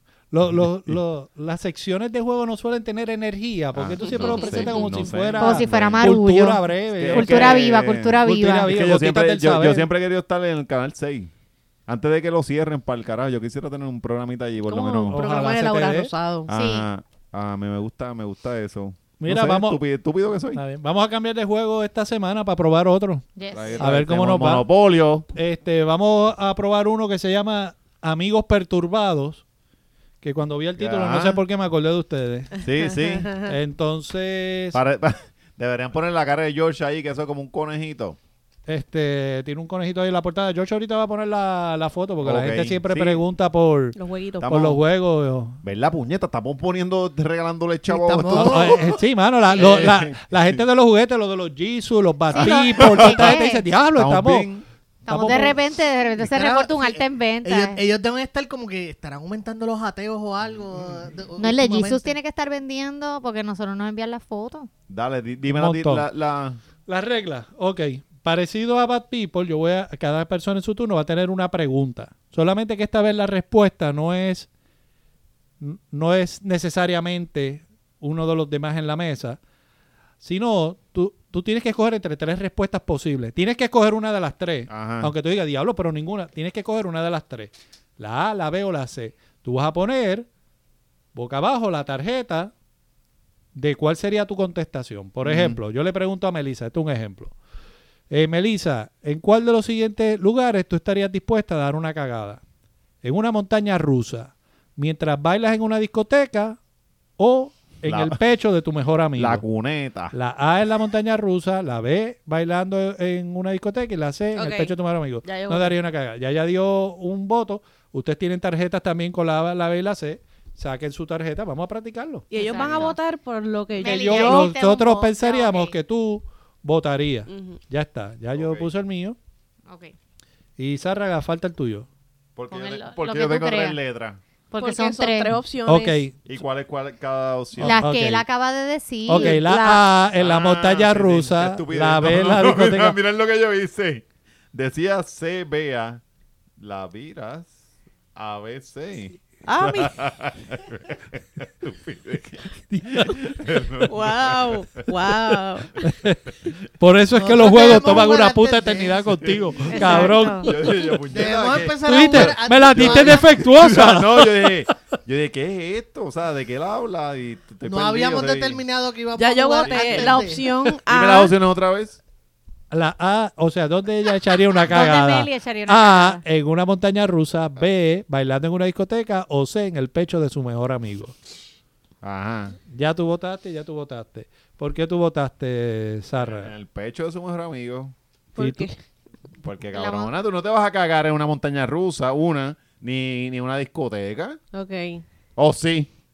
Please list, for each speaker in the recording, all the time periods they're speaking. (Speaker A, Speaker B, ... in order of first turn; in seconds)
Speaker A: 0.3-7.6, 8.2-9.9, 15.1-16.1, 19.2-19.8, 20.5-23.3, 23.8-24.6, 25.3-29.4, 30.2-32.6, 33.5-34.8, 38.7-45.6, 48.3-54.5, 55.1-55.6, 65.5-66.1, 66.9-74.5, 75.6-79.4, 80.2-90.3, 91.1-92.5, 93.5-97.3, 98.1-102.4, 103.0-106.6, 107.2-109.4, 110.1-122.3, 123.8-129.2, 130.6-131.9, 135.7-136.2, 137.6-138.3, 139.1-143.0, 152.7-153.2, 155.8-156.2, 156.8-160.5, 161.8-164.6, 172.7-181.2, 182.7-186.5, 188.4-188.7
Speaker B: 0.5-1.0, 3.7-6.2, 6.9-11.3, 11.9-15.3, 16.5-20.6, 23.5-25.3, 30.8-31.4, 32.6-33.3, 34.7-38.2, 42.2-43.2, 44.4-44.8, 45.6-49.0, 49.5-50.6, 52.3-53.4, 54.0-54.6, 64.9-66.6, 84.7-85.1, 95.2-95.6, 107.8-108.2, 109.2-110.1, 128.3-128.7, 132.4-134.2, 136.3-137.9, 140.2-146.0, 146.6-147.6, 148.2-154.8, 157.8-158.1, 159.2-168.6, 169.7-170.2, 170.9-172.0, 182.0-182.6, 186.3-187.9, 189.4-194.4, 195.4-195.9
Speaker C: 5.4-8.7, 16.5-16.9, 23.4-23.9, 52.3-53.6, 55.1-57.8, 61.4-64.7, 122.4-123.0, 123.8-125.7, 129.7-129.9, 132.5-133.8, 134.5-135.4, 137.6-139.9, 159.7-160.5, 174.7-176.2, 189.7-190.1
Speaker D: 14.7-16.5, 32.9-33.6, 44.0-44.5, 114.3-115.8, 122.3-124.5, 127.3-127.6, 134.6-136.0, 149.5-149.9, 153.9-155.7, 169.2-171.3, 188.3-188.8, 194.5-195.0
Speaker E: 47.9-48.9, 56.2-62.1, 157.1-159.2, 161.1-163.3, 167.6-170.4